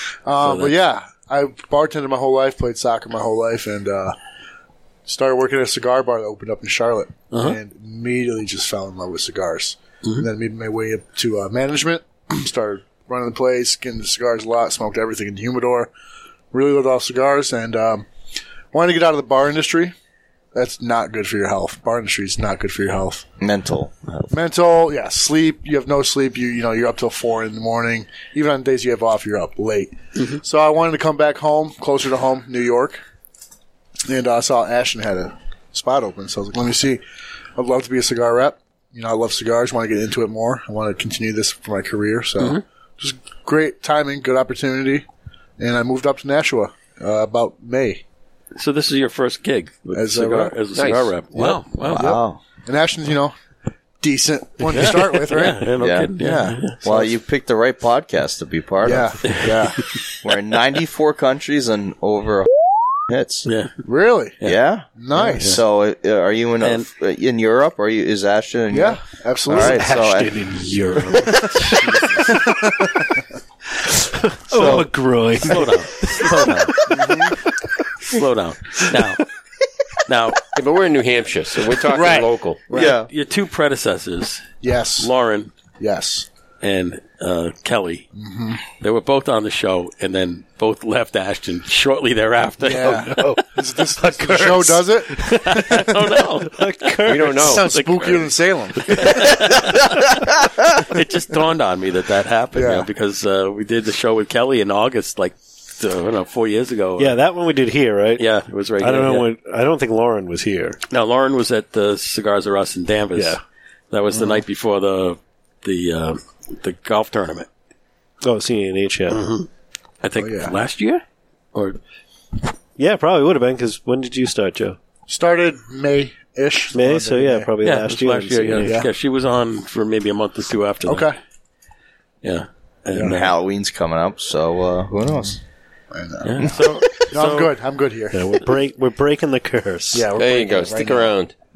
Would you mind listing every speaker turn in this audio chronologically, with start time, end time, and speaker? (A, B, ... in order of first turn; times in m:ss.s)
0:00.2-0:04.2 A
0:00.4-0:00.7 B
0:05.0-0:15.9 A
0:07.3-0:07.6 B
0:16.5-0:18.1 A
0:18.7-0:19.9 A
0:20.5-0:23.2 A
0:23.4-0:24.3 C
0:24.3-0:33.0 A
0:34.0-0:37.0 A
0:37.6-0:45.0 A
0:45.6-0:48.0 A
0:48.6-0:52.1 B
0:49.9-0:50.6 A
0:50.7-0:51.1 D
0:51.3-0:52.4 C
0:51.4-0:53.3 A
0:54.0-0:55.7 A
0:54.7-0:56.8 B
0:55.8-0:59.4 C
0:56.8-0:57.1 A
0:58.8-0:59.8 A
0:59.2-0:59.5 B
1:00.2-1:02.5 C
1:03.1-1:03.5 C
1:03.4-1:03.7 B
1:03.8-1:04.4 A
1:04.4-1:10.6 C
1:05.0-1:05.6 A
1:05.2-1:05.6 B
1:06.6-1:06.9 B
1:08.7-1:09.8 A
1:09.5-1:13.0 E
1:11.4-1:12.9 A
1:13.8-1:17.6 E
1:14.5-1:14.9 C
1:15.4-1:16.7 B
1:16.9-1:17.4 A
1:18.1-1:19.2 B
1:20.1-1:20.4 B
1:20.5-1:22.6 D
1:21.8-1:23.0 A
1:22.7-1:23.1 C
1:22.7-1:25.5 B
1:24.6-1:25.1 A
1:25.8-1:26.2 A
1:26.6-1:28.1 B
1:28.1-1:28.6 A
1:28.8-1:33.4 B
1:32.6-1:35.9 A
1:32.9-1:37.6 E
1:34.1-1:37.1 B
1:37.0-1:37.7 D
1:37.4-1:39.3 A
1:37.6-1:47.2 B
1:42.5-1:42.9 A
1:47.0-1:50.8 E
1:48.2-1:49.3 B
1:50.9-1:53.4 B
1:53.1-1:53.4 E
1:53.9-1:57.5 B
1:58.2-1:59.3 E
1:59.1-1:59.5 B
2:00.0-2:01.0 B
2:00.2-2:00.6 A
2:02.8-2:04.8 E
2:05.1-2:07.5 A
2:06.7-2:08.9 E
2:07.6-2:11.1 B
2:08.6-2:08.9 A
2:10.8-2:11.2 A
2:12.2-2:13.3 B
2:13.0-2:15.4 C
2:15.9-2:18.3 A
2:16.2-2:17.5 B
2:18.1-2:20.1 E
2:19.9-2:21.1 A
2:20.1-2:21.3 D